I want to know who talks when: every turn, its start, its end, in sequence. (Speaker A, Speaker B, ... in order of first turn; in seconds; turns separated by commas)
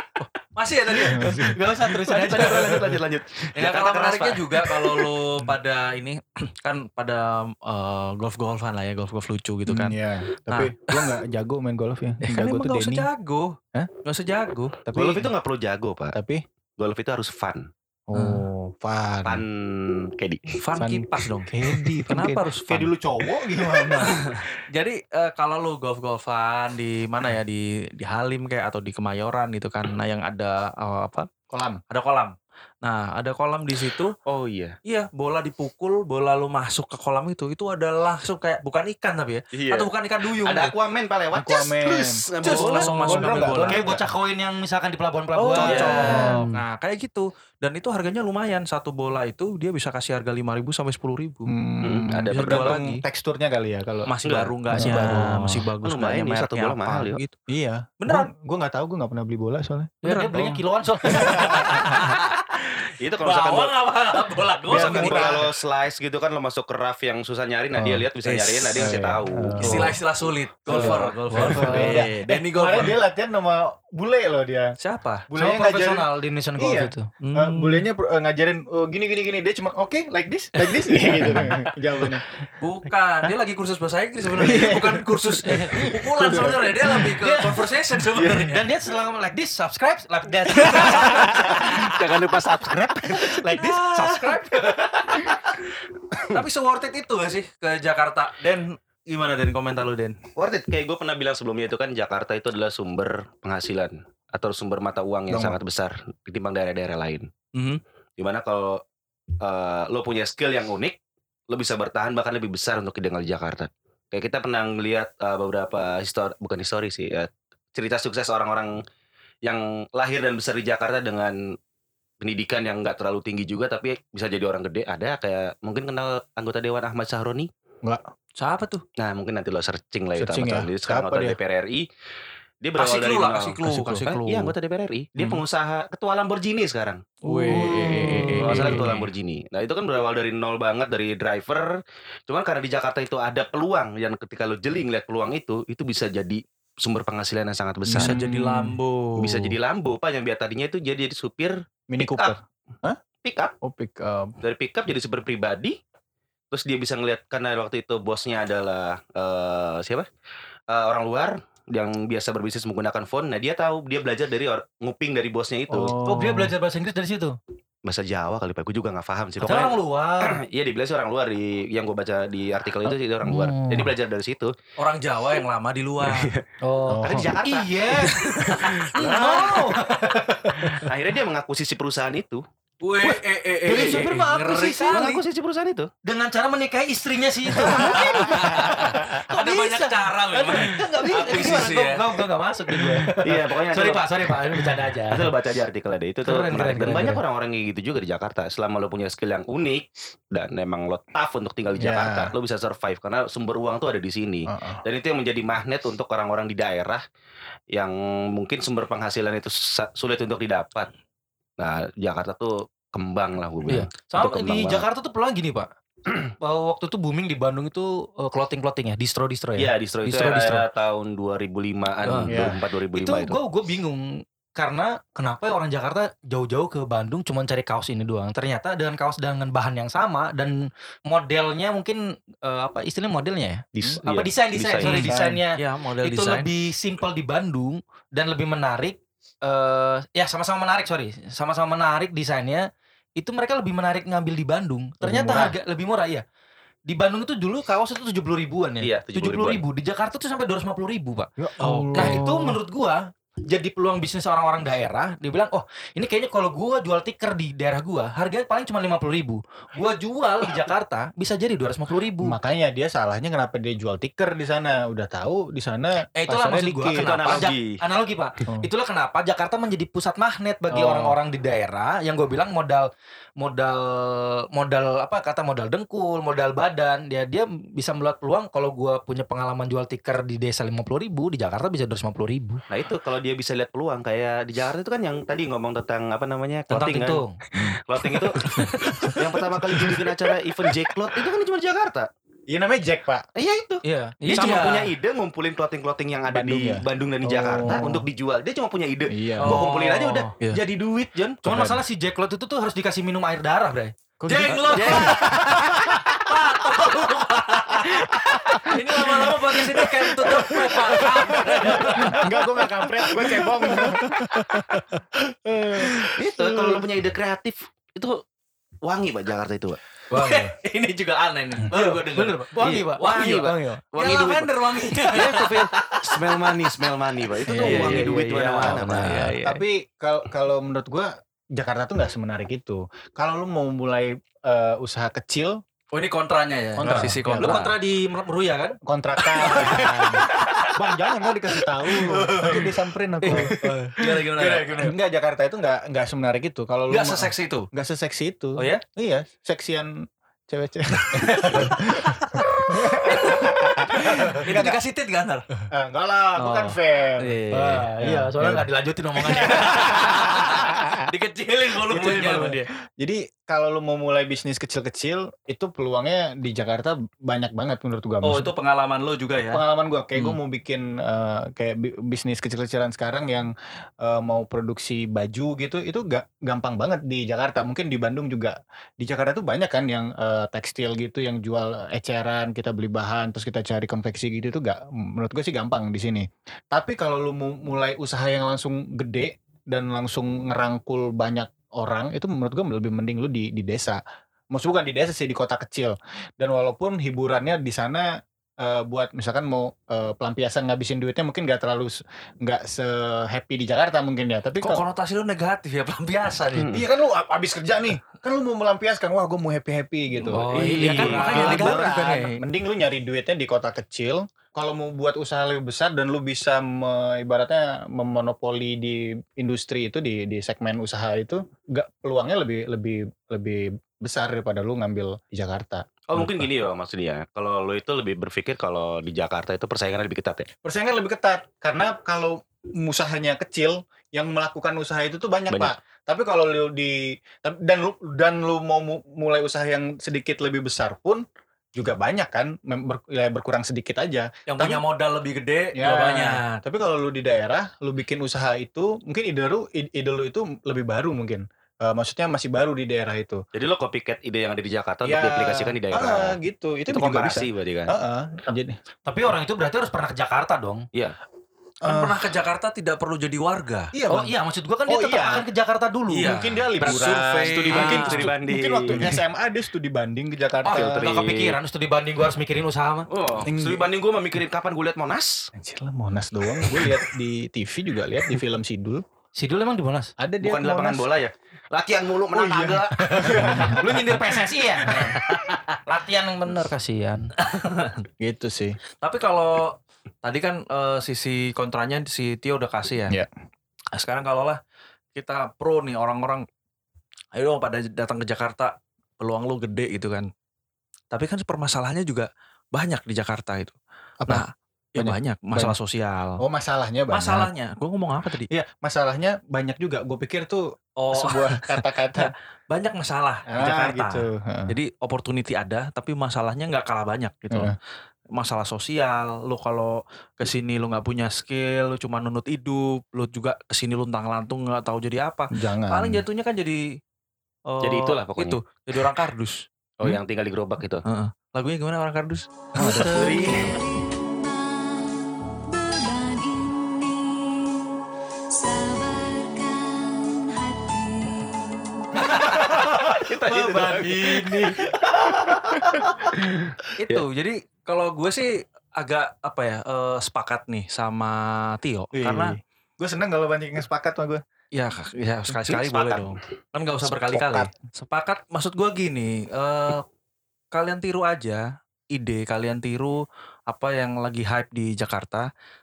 Speaker A: 0.2-1.5, Speaker B: 1.1-1.6, Speaker C: 1.2-2.9, Speaker D: 1.4-5.0, Speaker A: 3.5-9.9, Speaker B: 9.7-13.1, Speaker A: 10.5-11.2, Speaker A: 12.2-14.8, Speaker B: 14.8-15.3, Speaker D: 14.9-16.1, Speaker B: 16.1-16.4, Speaker D: 16.8-17.7, Speaker B: 18.1-19.4, Speaker A: 18.1-18.4, Speaker D: 19.2-20.6, Speaker A: 20.6-22.9, Speaker B: 20.8-24.4, Speaker A: 24.0-31.3, Speaker B: 31.5-31.8, Speaker A: 31.9-34.1, Speaker D: 34.2-34.8, Speaker A: 34.8-40.7, Speaker D: 39.5-43.6, Speaker B: 41.3-44.0, Speaker A: 42.4-43.9, Speaker C: 43.7-46.5, Speaker A: 45.4-51.5, Speaker B: 45.5-46.5, Speaker D: 45.6-46.3, Speaker B: 51.5-54.1, Speaker D: 51.8-52.7, Speaker A: 52.3-53.0, Speaker A: 54.0-57.4, Speaker D: 54.2-55.2, Speaker B: 54.7-55.7, Speaker D: 55.8-57.2, Speaker B: 57.5-60.0, Speaker A: 58.0-58.3, Speaker C: 60.0-62.0, Speaker A: 60.0-65.5, Speaker B: 61.1-62.0, Speaker D: 62.9-63.8, Speaker B: 64.7-65.5, Speaker D: 64.7-70.0, Speaker B: 67.7-68.1, Speaker A: 68.2-68.9, Speaker B: 68.8-70.0, Speaker A: 69.6-73.0, Speaker B: 70.7-74.8, Speaker D: 70.7-71.2, Speaker C: 71.5-72.1, Speaker A: 74.8-75.2, Speaker B: 75.3-76.0, Speaker C: 75.3-77.1, Speaker B: 76.6-82.2, Speaker A: 77.2-77.8, Speaker C: 80.7-81.5, Speaker A: 81.2-81.5, Speaker A: 82.5-88.6, Speaker B: 84.3-87.2, Speaker C: 85.4-85.9, Speaker C: 86.9-87.6, Speaker B: 88.1-88.5, Speaker C: 88.4-92.4, Speaker A: 90.6-91.3, Speaker B: 90.6-93.4, Speaker D: 92.0-92.6, Speaker C: 93.0-94.8, Speaker A: 93.4-95.3, Speaker A: 96.2-100.2, Speaker D: 100.3-107.3, Speaker B: 105.3-105.6, Speaker A: 107.5-107.8, Speaker D: 108.2-108.8, Speaker D: 109.4-111.0, Speaker D: 111.5-118.8, Speaker D: 119.4-121.5, Speaker D: 122.2-127.5, Speaker A: 128.4-128.8, Speaker D: 129.0-131.8, Speaker B: 130.2-131.4, Speaker D: 132.6-137.2, Speaker A: 132.8-134.5, Speaker B: 133.7-134.1, Speaker A: 137.2-139.1, Speaker B: 137.3-138.8, Speaker C: 137.4-138.7, Speaker D: 138.0-148.2, Speaker A: 147.9-149.6, Speaker B: 147.9-148.8, Speaker D: 149.2-152.3, Speaker B: 151.9-153.0, Speaker D: 153.2-153.5, Speaker B: 153.6-154.4, Speaker D: 154.4-155.8, Speaker D: 156.5-160.1, Speaker D: 160.7-165.9, Speaker B: 165.7-166.5, Speaker C: 166.0-167.4, Speaker D: 167.8-174.5, Speaker C: 169.4-170.4, Speaker C: 173.2-173.9, Speaker A: 174.8-176.3, Speaker D: 176.0-176.4, Speaker C: 176.6-178.2, Speaker B: 176.9-177.3, Speaker D: 177.0-179.7, Speaker A: 178.0-180.8, Speaker C: 178.9-180.9, Speaker D: 180.7-182.4, Speaker A: 182.8-185.2, Speaker C: 183.1-185.1, Speaker D: 183.7-184.1, Speaker D: 184.9-185.9, Speaker C: 186.0-195.3, Speaker A: 187.7-192.2, Speaker B: 187.9-188.4, Speaker D: 191.3-191.6, Speaker D: 193.2-194.3, Speaker D: 195.1-207.0, Speaker C: 196.2-197.2, Speaker B: 201.8-202.3, Speaker B: 204.5-204.8, Speaker D: 207.7-210.9, Speaker D: 211.6-214.8, Speaker C: 213.7-215.7, Speaker C: 216.4-220.7, Speaker D: 219.6-223.4, Speaker C: 222.0-242.7, Speaker B: 222.3-222.6, Speaker D: 233.8-235.1, Speaker A: 234.8-236.5, Speaker B: 234.8-235.4, Speaker C: 243.2-246.2, Speaker B: 245.0-245.6, Speaker C: 246.9-251.3, Speaker D: 248.8-249.6, Speaker B: 251.4-252.6, Speaker A: 251.6-252.2, Speaker C: 251.9-262.4, Speaker B: 262.2-267.1, Speaker C: 266.1-282.6, Speaker D: 266.9-267.8, Speaker B: 270.7-271.2, Speaker D: 282.7-287.2, Speaker C: 286.7-287.4, Speaker D: 287.8-292.1, Speaker A: 288.5-289.2, Speaker B: 292.5-293.2, Speaker D: 293.3-301.3, Speaker C: 293.8-294.8, Speaker A: 294.2-294.9, Speaker B: 296.3-298.1, Speaker B: 299.1-299.6, Speaker A: 299.4-300.6, Speaker C: 301.0-305.2, Speaker B: 301.4-301.8, Speaker B: 304.2-306.2, Speaker A: 304.3-312.4, Speaker D: 304.7-305.3, Speaker B: 307.8-309.5, Speaker C: 308.0-308.8, Speaker B: 310.2-314.8, Speaker C: 311.0-312.3, Speaker A: 313.2-314.0, Speaker B: 315.5-316.8, Speaker D: 316.1-318.2, Speaker D: 318.8-319.8, Speaker A: 320.1-323.3, Speaker C: 320.1-320.5, Speaker C: 321.7-323.8, Speaker D: 322.6-324.5, Speaker A: 323.9-326.9, Speaker D: 325.0-329.1, Speaker A: 327.5-329.4, Speaker C: 327.5-329.6, Speaker B: 329.0-335.6, Speaker A: 335.9-337.7, Speaker C: 336.8-338.8, Speaker B: 336.8-337.6, Speaker B: 338.8-343.6, Speaker C: 339.4-340.0, Speaker A: 339.4-340.7, Speaker A: 341.9-342.7, Speaker C: 343.2-344.9, Speaker A: 343.2-344.9, Speaker B: 344.8-349.9, Speaker A: 346.9-347.7, Speaker A: 348.6-348.8, Speaker B: 350.5-354.8, Speaker A: 351.0-355.4, Speaker B: 355.7-357.4, Speaker A: 356.4-357.9, Speaker C: 357.5-360.6, Speaker B: 358.0-358.6, Speaker A: 359.2-362.7, Speaker B: 361.9-368.5, Speaker C: 361.9-362.5, Speaker A: 368.2-369.6, Speaker B: 369.5-394.0, Speaker B: 394.5-404.8, Speaker A: 404.6-406.8, Speaker D: 406.5-406.8, Speaker B: 406.7-426.5, Speaker C: 410.3-411.8, Speaker D: 410.5-411.9, Speaker A: 410.6-412.4, Speaker D: 426.1-430.5, Speaker B: 430.6-444.8, Speaker D: 435.5-435.7, Speaker A: 444.5-446.6, Speaker B: 445.7-453.4, Speaker D: 453.5-456.4, Speaker B: 455.0-458.8, Speaker D: 456.9-457.9, Speaker C: 459.1-460.9, Speaker B: 461.8-462.2, Speaker A: 461.8-463.9, Speaker B: 463.9-464.3, Speaker C: 464.1-466.3, Speaker B: 464.9-465.4, Speaker A: 466.1-468.3, Speaker B: 466.2-471.1, Speaker D: 467.7-469.1, Speaker C: 470.6-473.1, Speaker D: 470.6-471.6, Speaker D: 473.1-475.5, Speaker B: 473.4-473.9, Speaker B: 475.5-479.0, Speaker C: 479.4-480.1, Speaker B: 480.2-481.1, Speaker D: 480.4-483.6, Speaker B: 482.3-485.2, Speaker C: 483.1-485.2, Speaker A: 484.9-485.7, Speaker C: 485.9-487.3, Speaker A: 487.4-488.1, Speaker B: 488.2-488.8, Speaker A: 489.0-493.2, Speaker A: 493.9-494.6, Speaker A: 495.1-496.4, Speaker A: 497.3-500.3, Speaker A: 501.1-503.8, Speaker A: 504.3-506.4, Speaker B: 505.0-505.8, Speaker B: 506.4-507.5, Speaker A: 507.1-508.5, Speaker B: 508.5-512.3, Speaker A: 511.0-517.8, Speaker B: 513.5-514.8, Speaker B: 517.5-517.8, Speaker A: 518.3-527.0, Speaker B: 525.5-526.2, Speaker A: 527.7-529.6, Speaker D: 527.8-528.6, Speaker D: 530.0-531.0, Speaker A: 531.0-533.6, Speaker B: 532.8-533.4, Speaker E: 532.9-542.6, Speaker D: 533.1-533.8, Speaker A: 542.4-544.8, Speaker D: 542.4-547.2, Speaker A: 546.9-552.6, Speaker B: 552.1-554.4, Speaker A: 554.7-560.0, Speaker D: 555.6-556.3, Speaker B: 557.3-557.7, Speaker A: 560.7-565.5